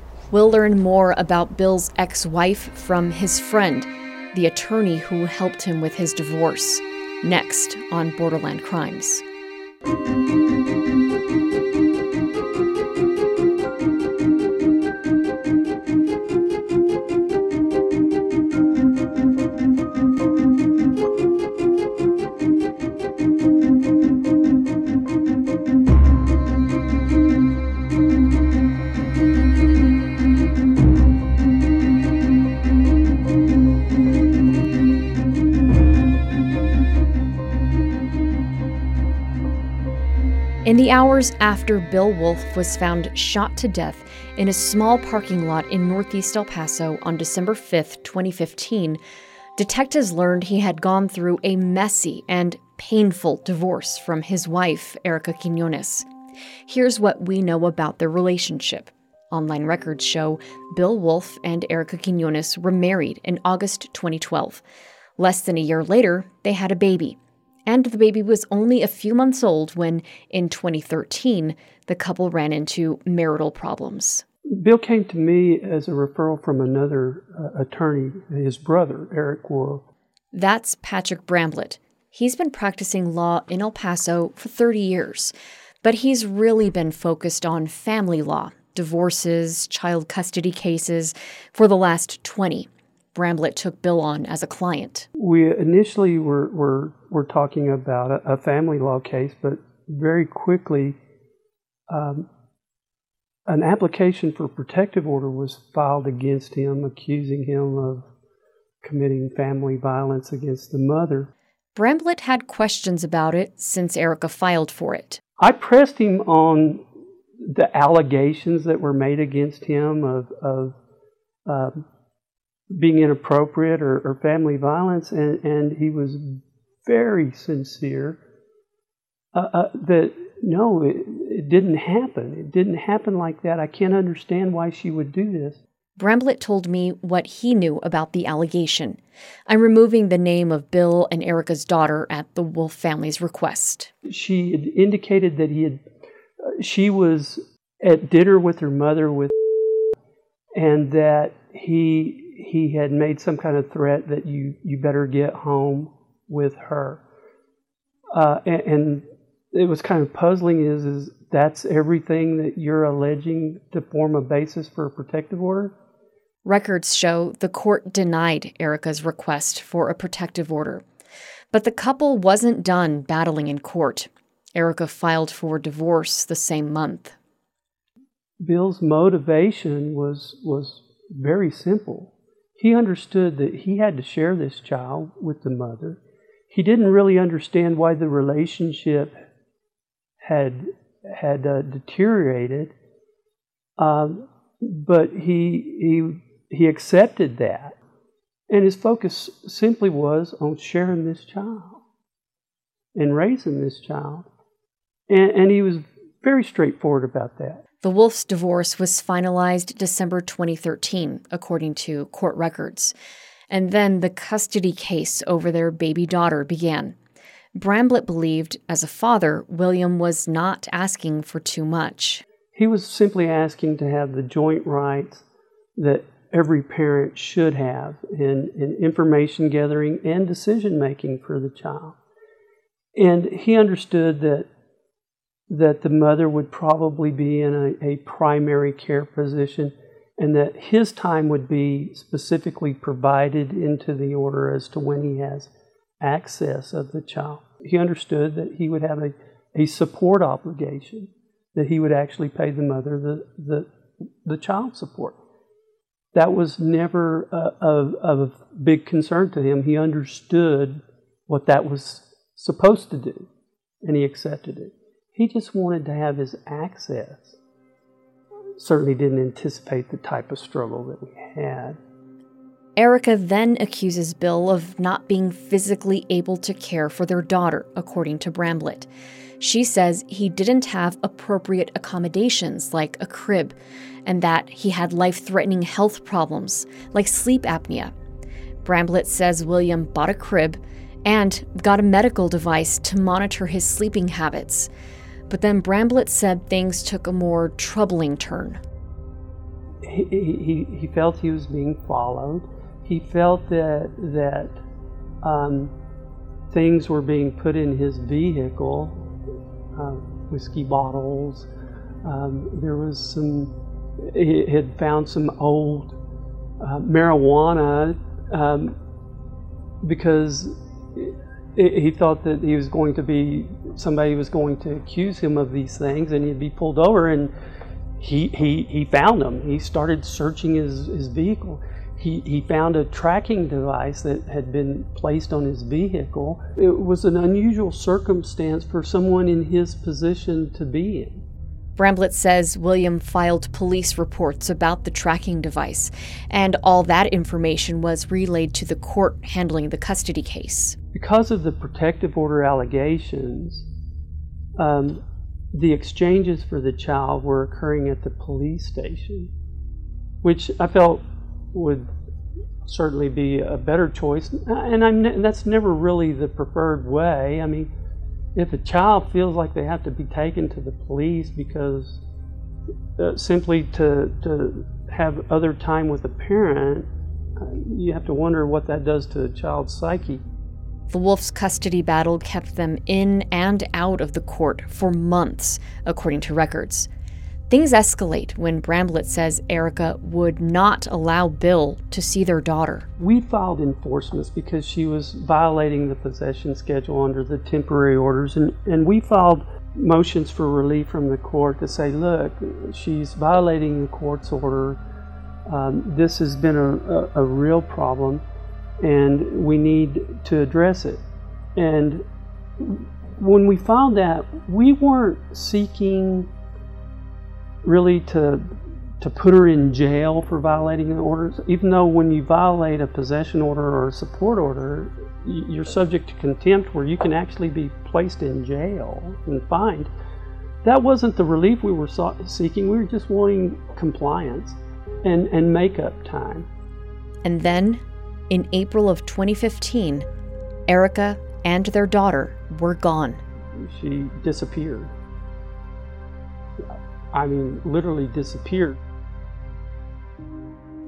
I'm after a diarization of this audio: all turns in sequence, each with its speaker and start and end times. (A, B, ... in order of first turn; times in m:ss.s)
0:00.3-0:09.2 A
0:40.6-0:49.0 A
0:49.6-0:56.1 A
0:56.7-1:04.6 A
1:05.2-1:14.2 A
1:14.5-1:19.8 B
1:20.3-1:35.1 A
1:35.2-1:41.0 B
1:41.9-1:42.3 B
1:43.5-1:48.1 B
1:48.8-1:51.3 B
1:51.8-1:55.2 A
1:55.4-1:56.8 B
1:57.4-2:00.8 B
2:01.5-2:01.8 B
2:02.7-2:08.2 B
2:09.3-2:15.6 B
2:16.0-2:23.9 A
2:24.1-2:25.8 B
2:26.6-2:29.4 B
2:30.6-2:37.0 B
2:38.2-2:45.7 B
2:46.4-2:50.8 A
2:51.5-2:57.2 A
2:58.4-3:06.0 B
3:06.5-3:09.2 B
3:10.2-3:12.7 B
3:13.8-3:17.8 B
3:18.5-3:21.8 B
3:23.0-3:24.3 B
3:25.1-3:27.6 B
3:27.8-3:32.9 A
3:33.5-3:37.0 A
3:37.6-3:42.2 A
3:42.6-3:45.2 B
3:45.8-3:52.0 B
3:53.0-3:54.5 B
3:55.5-4:05.5 B
4:06.0-4:13.7 B
4:14.2-4:15.2 B
4:16.1-4:23.3 B
4:23.8-4:27.4 B
4:28.6-4:31.8 B
4:32.8-4:38.9 A
4:39.4-4:47.9 A
4:48.6-4:54.7 A
4:55.3-4:58.6 A
4:59.8-5:04.6 B
5:05.2-5:05.7 B
5:06.5-5:09.1 B
5:09.8-5:11.5 B
5:12.0-5:16.0 B
5:16.6-5:18.8 B
5:19.8-5:27.3 B
5:28.0-5:41.2 B
5:41.8-5:50.8 A
5:50.9-5:53.7 B
5:54.6-5:59.3 B
6:00.2-6:01.9 B
6:02.6-6:07.7 B
6:08.4-6:12.0 B
6:13.0-6:16.9 B
6:17.4-6:20.2 B
6:20.9-6:26.9 A
6:27.5-6:32.9 A
6:33.0-6:44.8 B
6:45.5-6:48.2 B
6:48.8-6:51.0 B
6:51.6-6:52.0 B
6:52.6-6:56.3 B
6:57.6-7:09.9 B
7:10.6-7:16.5 B
7:17.2-7:20.1 A
7:20.7-7:23.2 A
7:23.6-7:24.9 B
7:26.6-7:28.8 B